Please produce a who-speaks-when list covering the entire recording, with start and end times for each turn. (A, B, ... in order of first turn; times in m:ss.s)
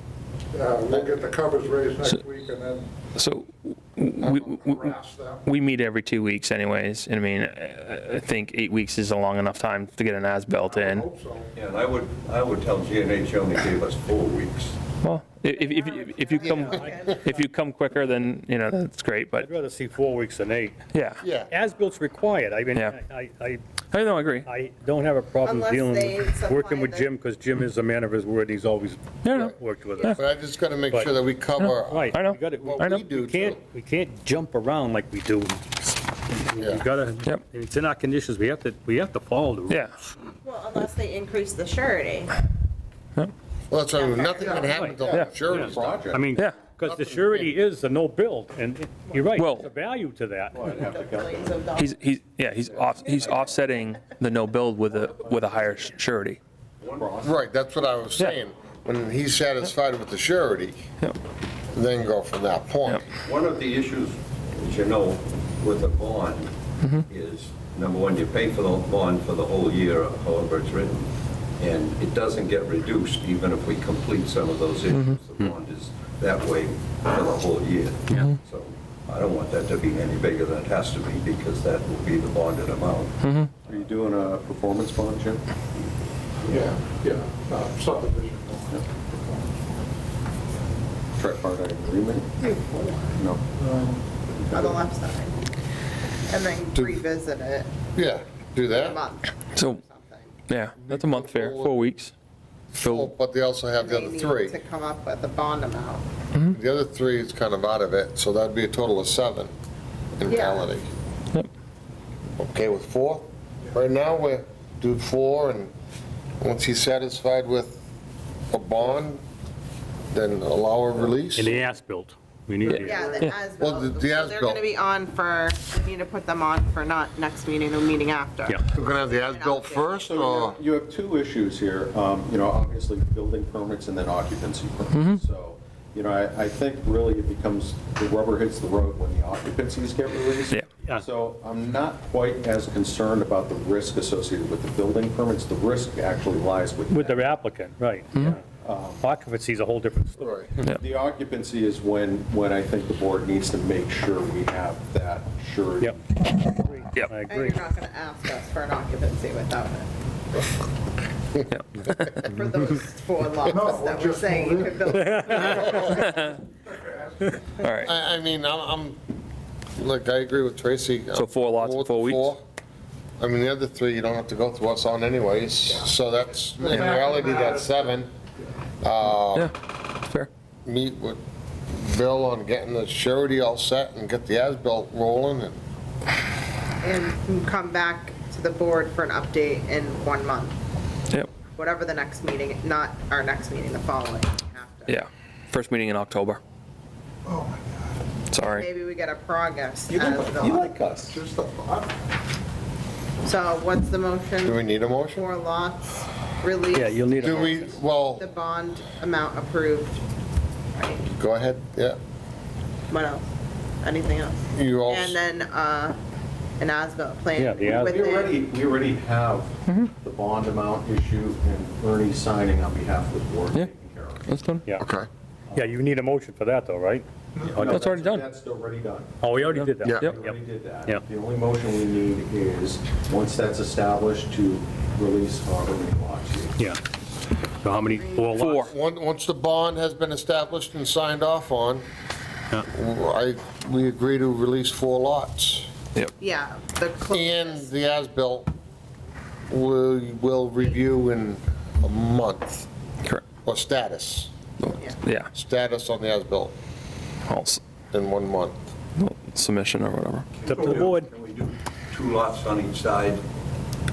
0:00.5-0:02.8 A
0:03.2-0:04.9 B
0:04.2-0:04.5 C
0:04.7-0:05.4 A
0:05.5-0:11.0 B
0:10.7-0:11.5 A
0:11.6-0:14.8 D
0:15.0-0:19.5 B
0:15.5-0:17.4 E
0:16.5-0:16.9 F
0:19.4-0:20.8 F
0:20.9-0:21.2 B
0:21.2-0:21.5 C
0:21.4-0:23.6 F
0:23.9-0:24.5 B
0:24.4-0:30.1 F
0:25.4-0:27.1 E
0:29.2-0:30.2 B
0:29.3-0:33.6 C
0:31.6-0:33.0 B
0:31.8-0:40.1 F
0:36.6-0:36.8 C
0:39.7-0:39.9 B
0:40.4-0:42.4 E
0:43.7-0:46.2 C
0:43.9-0:44.5 E
0:44.4-0:44.8 A
0:44.7-0:50.8 F
0:45.1-0:46.3 G
0:46.8-0:47.5 C
0:49.4-0:49.7 B
0:50.5-0:51.6 G
0:50.7-0:51.9 E
0:51.8-0:56.4 B
0:52.7-0:53.6 G
0:56.8-0:57.2 D
0:56.9-0:57.4 G
0:57.2-1:00.8 C
1:01.7-1:03.0 C
1:03.2-1:06.5 D
1:07.1-1:11.0 D
1:11.6-1:23.2 D
1:14.9-1:15.2 B
1:23.2-1:23.5 B
1:23.6-1:25.4 G
1:26.5-1:29.8 A
1:31.2-1:32.5 G
1:32.4-1:33.2 E
1:33.1-1:33.4 G
1:33.6-1:34.0 A
1:34.3-1:34.8 G
1:34.5-1:35.4 E
1:36.3-1:37.7 E
1:37.9-1:39.0 C
1:38.6-1:40.3 E
1:39.5-1:39.8 B
1:40.5-1:42.1 B
1:40.8-1:41.8 C
1:42.7-1:44.5 C
1:42.8-1:43.1 B
1:43.8-1:46.0 E
1:46.5-1:49.5 C
1:50.2-1:50.9 C
1:50.3-1:50.7 E
1:52.4-1:55.7 C
1:56.4-1:57.8 C
1:58.5-1:59.2 C
2:00.1-2:01.5 C
2:01.3-2:03.2 F
2:02.7-2:10.0 E
2:03.6-2:04.6 C
2:08.7-2:10.6 C
2:10.0-2:27.3 G
2:14.9-2:15.2 B
2:26.9-2:28.4 F
2:28.2-2:29.1 G
2:29.0-2:30.6 F
2:30.2-2:30.5 C
2:30.7-2:36.9 G
2:36.8-2:37.6 F
2:37.3-2:39.9 E
2:41.3-2:42.0 C
2:41.5-2:42.2 B
2:42.1-2:46.1 E
2:43.5-2:47.5 A
2:45.0-2:45.6 F
2:46.1-2:46.4 B
2:47.6-2:47.9 B
2:47.8-2:49.0 C
2:49.8-2:52.4 C
2:51.1-2:52.3 B
2:53.2-2:58.1 C
2:56.6-2:58.0 A
2:58.8-2:59.5 C
3:00.6-3:01.2 C
3:01.7-3:05.6 C
3:06.8-3:10.6 E
3:11.4-3:15.0 E
3:14.9-3:16.4 B
3:17.2-3:18.0 A
3:18.3-3:18.6 B
3:18.4-3:20.8 E
3:19.9-3:21.2 G
3:21.1-3:21.9 A
3:23.2-3:27.6 E
3:24.4-3:25.2 C
3:26.7-3:27.8 F
3:27.2-3:28.3 C
3:28.1-3:30.0 E
3:30.7-3:31.1 E
3:31.1-3:32.0 C
3:32.9-3:33.3 E
3:33.8-3:36.0 E
3:34.5-3:35.2 C
3:36.6-3:38.4 E
3:37.4-3:38.0 F
3:37.6-3:44.2 G
3:44.2-3:44.6 B
3:44.8-3:45.1 C
3:45.5-3:47.8 F
3:47.4-3:49.3 G
3:47.5-3:48.2 B
3:49.2-3:51.0 F
3:49.4-3:50.2 B
3:49.9-3:56.6 G
3:57.6-3:58.6 F
3:57.9-3:58.4 E
3:58.4-3:58.7 B
3:58.5-4:01.8 C
4:02.6-4:05.7 C
4:06.2-4:07.7 E
4:07.1-4:08.5 C
4:09.5-4:12.7 C
4:13.4-4:14.7 C
4:14.6-4:15.3 B
4:15.3-4:16.6 C
4:17.3-4:17.6 B
4:17.9-4:18.6 C
4:19.0-4:20.3 B
4:20.3-4:23.2 D
4:20.5-4:21.1 F